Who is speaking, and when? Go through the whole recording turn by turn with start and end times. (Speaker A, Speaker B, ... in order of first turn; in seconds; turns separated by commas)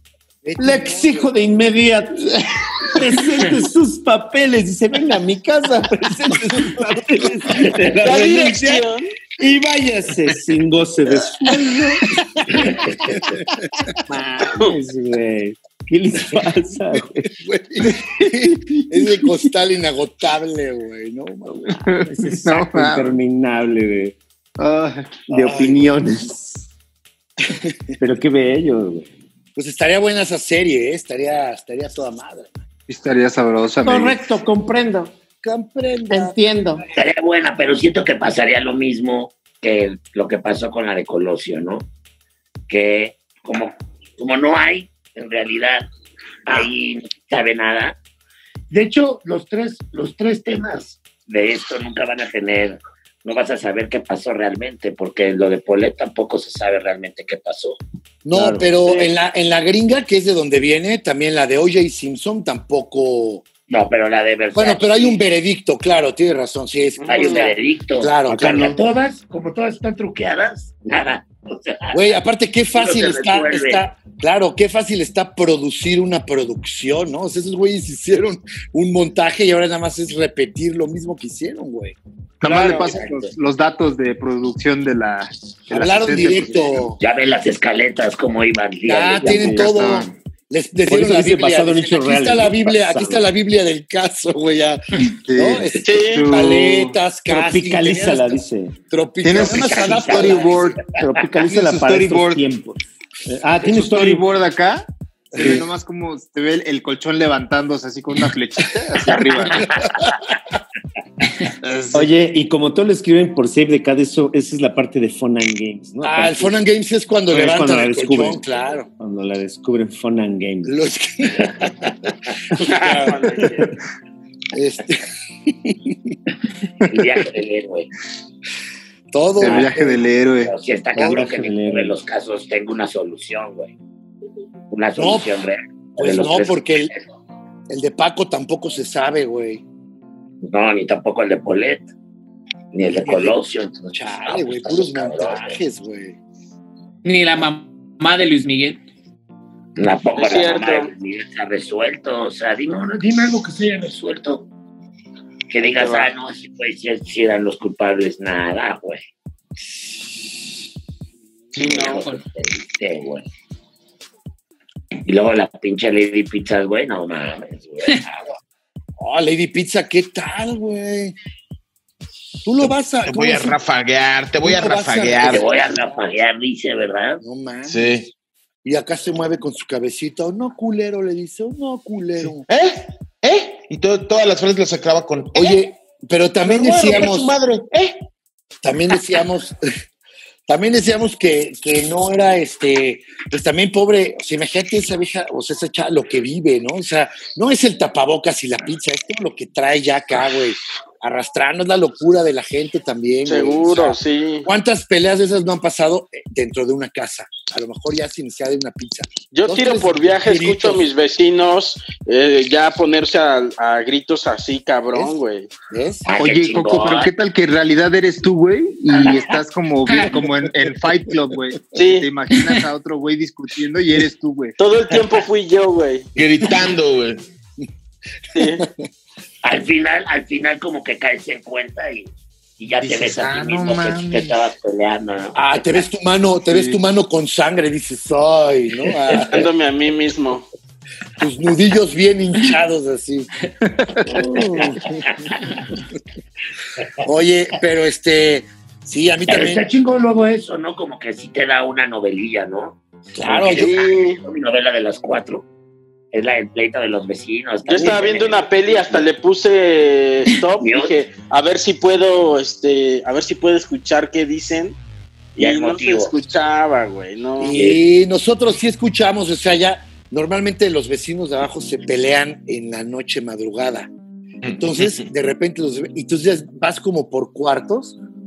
Speaker A: 0.4-1.3, Speaker B: 0.6-13.2, Speaker C: 7.9-9.1, Speaker A: 12.6-13.4, Speaker B: 14.1-17.3, Speaker A: 17.3-21.8, Speaker D: 18.0-18.8, Speaker D: 21.8-23.1, Speaker B: 22.0-24.2, Speaker D: 24.6-25.6, Speaker B: 25.3-26.7, Speaker A: 25.4-25.8, Speaker A: 27.4-27.9, Speaker B: 28.0-29.1, Speaker A: 29.6-32.6, Speaker D: 32.9-34.2, Speaker B: 33.8-35.1, Speaker A: 35.4-36.4, Speaker B: 36.1-36.8, Speaker E: 36.9-41.9, Speaker E: 42.7-45.9, Speaker E: 46.5-48.0, Speaker E: 48.7-57.8, Speaker A: 58.2-63.5, Speaker B: 58.3-58.7, Speaker E: 63.7-65.2, Speaker A: 64.5-68.8, Speaker C: 67.0-67.5, Speaker E: 67.1-72.0, Speaker B: 68.3-68.8, Speaker A: 71.9-82.0, Speaker E: 72.7-73.8, Speaker D: 82.4-86.9, Speaker E: 82.4-83.3, Speaker C: 82.4-82.9, Speaker A: 85.7-87.0, Speaker E: 87.0-89.4, Speaker A: 88.8-100.8, Speaker D: 89.2-90.1, Speaker B: 89.2-89.7, Speaker B: 90.9-93.2, Speaker D: 95.2-97.0, Speaker C: 95.8-96.3, Speaker B: 97.3-98.8, Speaker D: 99.2-100.8, Speaker E: 99.4-100.8, Speaker B: 101.0-104.2, Speaker D: 101.4-102.4, Speaker D: 103.6-109.7, Speaker A: 105.3-105.6, Speaker B: 105.4-105.6, Speaker D: 111.6-112.1, Speaker B: 111.9-116.6, Speaker A: 116.0-118.9, Speaker B: 117.3-118.4, Speaker B: 119.0-120.7, Speaker A: 120.7-123.7, Speaker C: 122.6-123.7, Speaker A: 124.5-126.1, Speaker E: 126.8-127.9, Speaker A: 129.1-130.0, Speaker D: 129.4-130.5, Speaker E: 129.4-129.7, Speaker E: 130.4-133.7, Speaker B: 130.9-132.0, Speaker E: 134.7-136.9, Speaker A: 135.0-135.3, Speaker A: 136.0-136.9, Speaker A: 137.7-139.6, Speaker E: 140.4-141.9, Speaker E: 142.7-145.6, Speaker A: 142.9-143.4, Speaker A: 143.9-146.2, Speaker F: 147.0-148.8, Speaker E: 149.8-154.5, Speaker C: 150.2-150.9, Speaker E: 155.5-159.1, Speaker C: 155.7-156.1, Speaker E: 161.5-163.2, Speaker C: 161.6-162.1, Speaker F: 161.8-162.2, Speaker E: 165.0-168.3, Speaker A: 169.0-171.1, Speaker A: 172.4-173.6, Speaker G: 172.6-175.5, Speaker A: 174.4-175.7, Speaker E: 175.3-177.2, Speaker A: 177.2-177.9, Speaker G: 177.7-178.1, Speaker A: 178.6-182.4, Speaker G: 182.4-185.6, Speaker A: 185.3-187.3, Speaker G: 186.4-188.0, Speaker A: 188.6-189.6, Speaker A: 190.5-210.9, Speaker C: 203.2-204.5, Speaker C: 209.3-215.5, Speaker A: 215.7-216.1, Speaker E: 216.1-217.1, Speaker D: 216.2-224.6, Speaker C: 221.7-222.1, Speaker C: 224.6-226.1, Speaker G: 226.2-227.2, Speaker C: 228.3-228.7, Speaker E: 229.4-235.6, Speaker D: 232.8-234.4, Speaker A: 235.3-239.5, Speaker D: 236.5-236.8, Speaker C: 239.1-240.5, Speaker A: 241.2-243.3, Speaker D: 243.8-244.1, Speaker A: 244.1-245.3, Speaker E: 244.1-245.3, Speaker A: 247.0-249.6, Speaker E: 249.3-255.4, Speaker A: 253.1-253.9, Speaker C: 253.5-254.2, Speaker E: 256.1-259.1, Speaker C: 257.7-264.8, Speaker E: 260.6-260.9, Speaker C: 265.4-267.7, Speaker E: 265.4-266.1, Speaker A: 267.4-273.9, Speaker E: 267.5-267.8, Speaker G: 274.4-275.1, Speaker A: 274.5-278.0